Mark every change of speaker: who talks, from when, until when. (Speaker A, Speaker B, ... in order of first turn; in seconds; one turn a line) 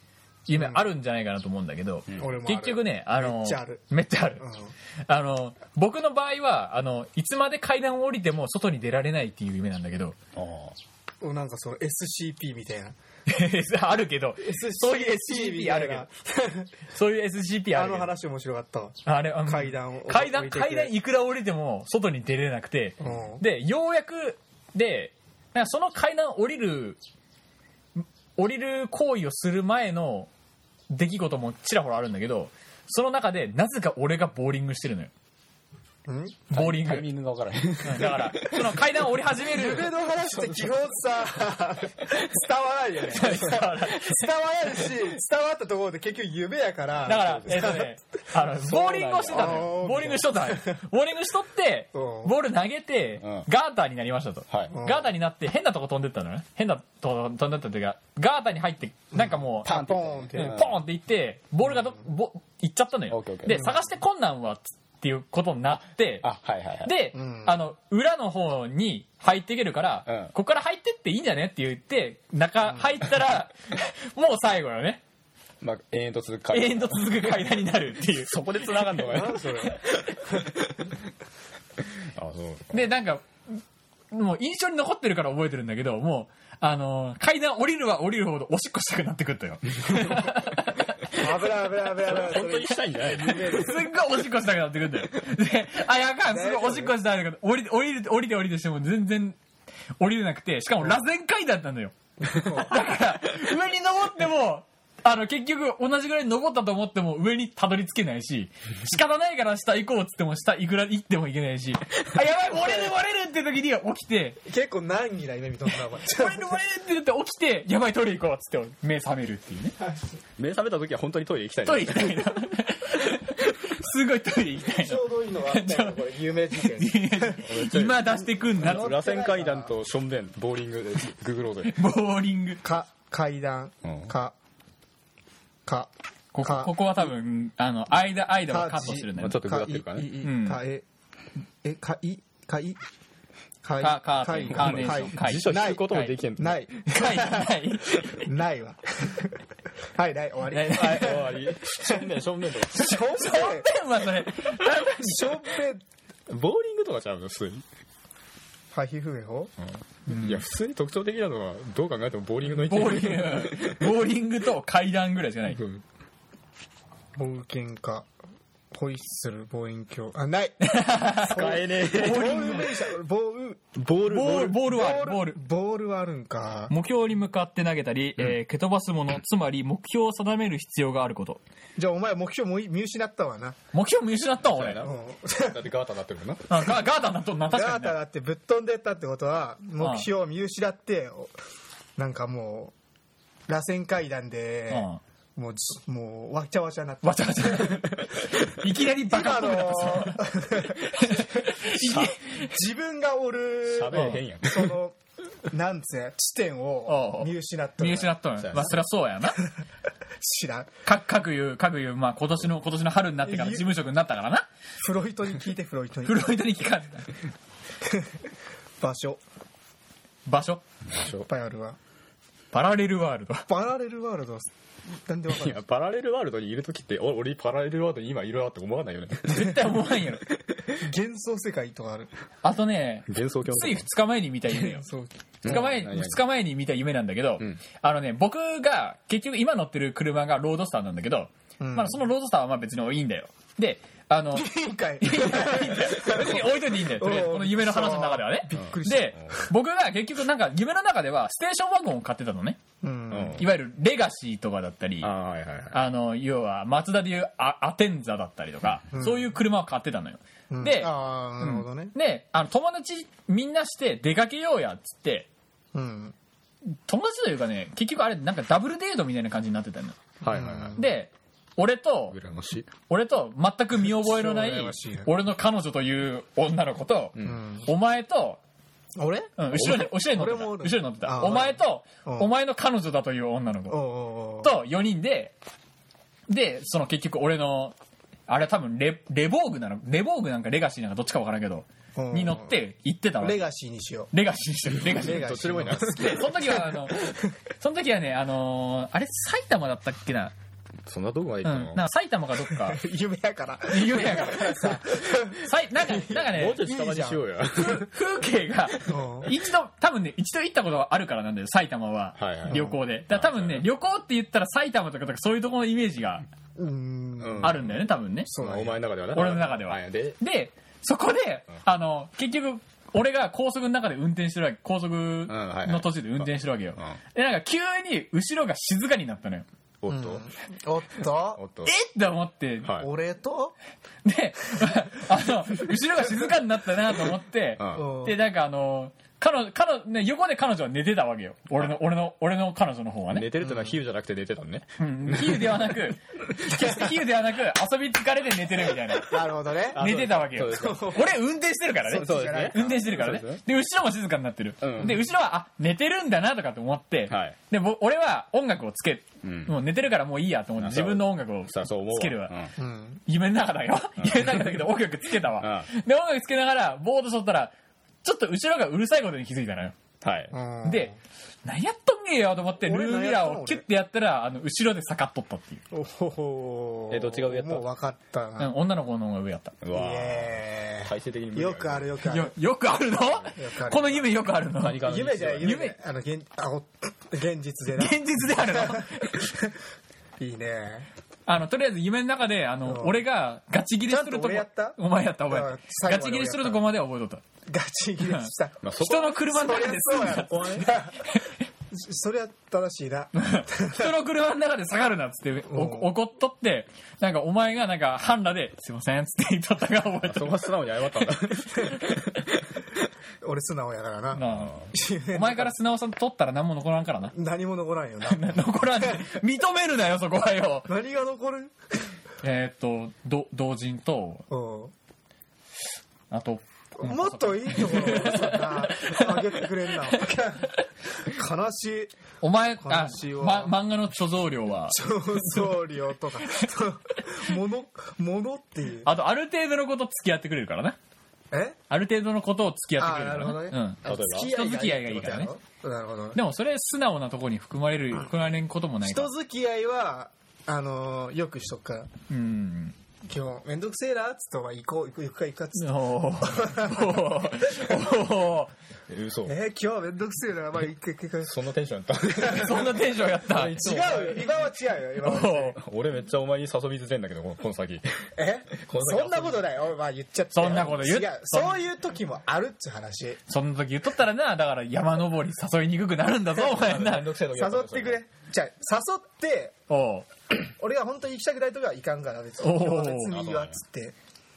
Speaker A: 0.5-4.4
Speaker B: 0.5-0.9
Speaker B: 2.2-3.8
Speaker B: 4.4-4.7
Speaker A: 5.1-10.2
Speaker C: 10.3-10.8
Speaker B: 11.2-12.9
Speaker A: 13.3-16.1
Speaker B: 14.4-16.7
Speaker A: 16.9-18.1
Speaker B: 17.7-20.9
Speaker A: 19.0-27.0
Speaker B: 23.0-23.4
Speaker A: 28.0-30.3
Speaker A: 30.9-35.1
Speaker B: 36.0-36.5
Speaker A: 36.5-37.1
Speaker C: 36.5-38.8
Speaker A: 37.8-39.9
Speaker B: 39.4-48.0
Speaker C: 40.1-40.8
Speaker A: 43.1-44.2
Speaker A: 47.0-66.3
Speaker C: 47.1-47.7
Speaker C: 48.6-49.7
Speaker B: 49.3-50.8
Speaker B: 51.9-52.3
Speaker C: 53.2-53.5
Speaker C: 54.5-54.8
Speaker B: 54.7-55.1
Speaker B: 59.1-60.6
Speaker C: 59.7-60.8
Speaker B: 61.7-62.0
Speaker C: 63.1-63.7
Speaker B: 63.5-63.8
Speaker C: 66.2-66.9
Speaker A: 66.8-75.0
Speaker B: 67.1-67.6
Speaker C: 70.1-70.3
Speaker C: 75.6-80.7
Speaker A: 76.5-79.0
Speaker B: 79.0-80.3
Speaker C: 82.2-82.9
Speaker A: 82.7-83.6
Speaker A: 84.1-91.2
Speaker B: 91.2-93.9
Speaker C: 92.0-93.6
Speaker A: 93.3-99.4
Speaker B: 96.3-97.0
Speaker A: 100.0-114.4
Speaker B: 102.2-102.8
Speaker B: 112.5-112.9
Speaker B: 114.4-116.6
Speaker A: 116.0-119.8
Speaker C: 120.4-122.4
Speaker A: 121.6-126.0
Speaker B: 124.7-127.5
Speaker A: 126.6-128.9
Speaker C: 127.4-131.7
Speaker B: 128.6-129.7
Speaker A: 131.6-132.6
Speaker B: 132.6-134.3
Speaker C: 133.8-134.1
Speaker B: 135.7-137.1
Speaker A: 136.3-139.4
Speaker B: 138.5-140.8
Speaker C: 139.2-140.2
Speaker A: 140.2-140.6
Speaker B: 141.6-142.8
Speaker B: 143.6-147.5
Speaker A: 143.8-146.1
Speaker C: 144.5-146.7
Speaker A: 146.9-148.3
Speaker B: 148.2-149.4
Speaker B: 149.9-152.0
Speaker A: 150.5-151.2
Speaker C: 150.7-153.1
Speaker B: 152.7-153.7
Speaker A: 152.9-155.1
Speaker B: 154.8-155.8
Speaker C: 156.3-157.6
Speaker B: 158.7-159.5
Speaker C: 160.0-163.9
Speaker A: 160.1-160.4
Speaker A: 162.5-165.6
Speaker C: 165.5-165.8
Speaker B: 167.2-168.1
Speaker B: 168.7-173.7
Speaker A: 170.6-172.7
Speaker C: 171.2-172.8
Speaker C: 173.8-174.6
Speaker A: 174.1-175.4
Speaker B: 174.5-176.7
Speaker A: 176.7-181.4
Speaker B: 181.8-183.6
Speaker A: 183.7-184.9
Speaker C: 184.5-184.9
Speaker B: 184.8-185.7
Speaker C: 185.5-186.4
Speaker A: 186.5-188.0
Speaker B: 187.5-191.3
Speaker A: 189.8-190.1
Speaker B: 192.0-192.7
Speaker B: 193.5-197.9
Speaker A: 194.7-195.0
Speaker A: 197.0-202.5
Speaker B: 199.1-201.2
Speaker C: 201.7-202.2
Speaker B: 202.3-205.0
Speaker C: 203.7-204.7
Speaker A: 203.9-204.2
Speaker B: 205.5-208.1
Speaker A: 206.8-209.4
Speaker C: 208.4-208.8
Speaker B: 210.2-210.7
Speaker A: 210.8-214.4
Speaker B: 213.2-213.7
Speaker B: 214.8-216.3
Speaker A: 216.0-217.1
Speaker B: 218.8-219.2
Speaker A: 220.2-220.6
Speaker C: 220.9-221.2
Speaker B: 221.2-221.8
Speaker A: 222.5-223.4
Speaker B: 223.5-225.6
Speaker C: 225.3-229.6
Speaker A: 229.3-230.2
Speaker B: 230.8-232.1
Speaker A: 232.4-234.8
Speaker C: 233.1-233.9
Speaker B: 234.5-235.7
Speaker C: 235.4-236.2
Speaker A: 235.4-244.5
Speaker B: 241.6-242.1
Speaker B: 244.3-249.3
Speaker A: 245.0-252.6
Speaker C: 248.5-249.4
Speaker B: 252.8-253.4
Speaker C: 253.1-253.5
Speaker A: 253.3-255.1
Speaker C: 255.0-255.8
Speaker A: 255.7-265.3
Speaker B: 258.9-259.3
Speaker B: 260.5-261.9
Speaker B: 265.7-266.1
Speaker A: 266.9-270.0
Speaker C: 270.2-270.8
Speaker B: 270.3-270.8
Speaker A: 270.8-272.2
Speaker C: 272.1-272.7
Speaker A: 272.9-278.4
Speaker B: 273.8-275.1
Speaker B: 277.2-277.7
Speaker B: 279.0-282.3
Speaker A: 279.4-283.8
Speaker C: 279.6-279.9
Speaker B: 283.7-284.5
Speaker A: 284.4-285.3
Speaker A: 286.3-287.7
Speaker A: 288.3-293.4
Speaker B: 291.9-292.5
Speaker B: 293.2-294.1
Speaker A: 294.1-300.3
Speaker C: 294.8-296.2
Speaker B: 294.9-297.2
Speaker C: 300.9-301.8
Speaker A: 301.4-302.8
Speaker B: 302.4-307.8
Speaker A: 303.7-306.7
Speaker C: 306.2-307.9
Speaker A: 307.6-316.2
Speaker B: 308.8-309.3
Speaker C: 312.2-313.6
Speaker B: 312.5-312.8
Speaker B: 316.6-318.8
Speaker C: 317.2-317.7
Speaker A: 317.4-318.3
Speaker C: 318.4-320.2
Speaker A: 319.1-329.4
Speaker C: 325.3-327.0
Speaker C: 329.8-330.2
Speaker B: 329.9-331.4
Speaker C: 331.3-331.7
Speaker A: 331.6-332.7
Speaker B: 332.8-333.5
Speaker A: 334.0-343.3
Speaker C: 337.6-337.9
Speaker B: 337.7-338.2
Speaker C: 343.1-345.7
Speaker B: 343.4-343.8
Speaker A: 344.8-349.2
Speaker B: 349.0-351.2
Speaker C: 349.7-350.9
Speaker A: 349.8-362.4
Speaker B: 351.8-352.8
Speaker C: 351.9-353.4
Speaker C: 354.6-355.1
Speaker C: 357.1-357.4
Speaker C: 359.2-359.6
Speaker C: 360.6-362.5
Speaker B: 362.6-363.0
Speaker A: 363.1-367.5
Speaker C: 364.0-364.7
Speaker C: 365.4-365.7
Speaker A: 368.0-369.7
Speaker C: 370.0-370.3
Speaker B: 370.3-370.9
Speaker A: 370.6-370.9
Speaker A: 371.4-375.6
Speaker B: 372.6-373.6
Speaker B: 375.7-378.5
Speaker C: 376.9-377.6
Speaker A: 378.4-379.6
Speaker C: 379.6-381.9
Speaker B: 379.7-382.3
Speaker A: 382.0-384.8
Speaker B: 383.3-384.1
Speaker C: 384.6-385.5
Speaker B: 384.8-389.5
Speaker A: 385.4-385.7
Speaker A: 387.8-389.2
Speaker B: 390.2-390.9
Speaker A: 391.2-397.2
Speaker B: 392.6-393.0
Speaker B: 393.8-396.6
Speaker B: 397.5-401.0
Speaker C: 398.6-399.2
Speaker A: 398.8-401.3
Speaker B: 401.7-403.9
Speaker A: 403.1-410.4
Speaker B: 405.5-405.9
Speaker C: 410.1-412.6
Speaker B: 413.2-415.6
Speaker A: 414.1-414.6
Speaker C: 414.3-414.6
Speaker A: 415.1-417.1
Speaker B: 417.1-419.2
Speaker A: 418.1-420.7
Speaker B: 420.7-421.5
Speaker A: 422.2-424.2
Speaker B: 424.3-424.7
Speaker A: 426.1-430.0
Speaker B: 426.8-431.9
Speaker A: 432.2-435.5
Speaker B: 432.6-433.6
Speaker B: 434.7-438.9
Speaker A: 438.8-440.8
Speaker B: 441.3-441.6
Speaker A: 441.7-445.3
Speaker B: 442.8-446.2
Speaker C: 443.8-444.4
Speaker A: 446.1-449.1
Speaker B: 448.8-451.9
Speaker A: 452.1-452.7
Speaker B: 453.1-457.1
Speaker A: 455.6-458.5
Speaker C: 458.9-459.3
Speaker B: 459.2-461.4
Speaker C: 461.2-464.4
Speaker B: 462.2-462.8
Speaker A: 462.3-463.6
Speaker B: 463.4-465.6
Speaker A: 465.0-465.6
Speaker C: 465.6-469.5
Speaker B: 468.1-473.2
Speaker A: 470.3-471.6
Speaker A: 473.3-477.1
Speaker C: 476.4-478.0
Speaker B: 477.3-479.6
Speaker A: 479.7-480.1
Speaker B: 480.6-483.9
Speaker A: 482.4-483.1
Speaker C: 483.1-483.6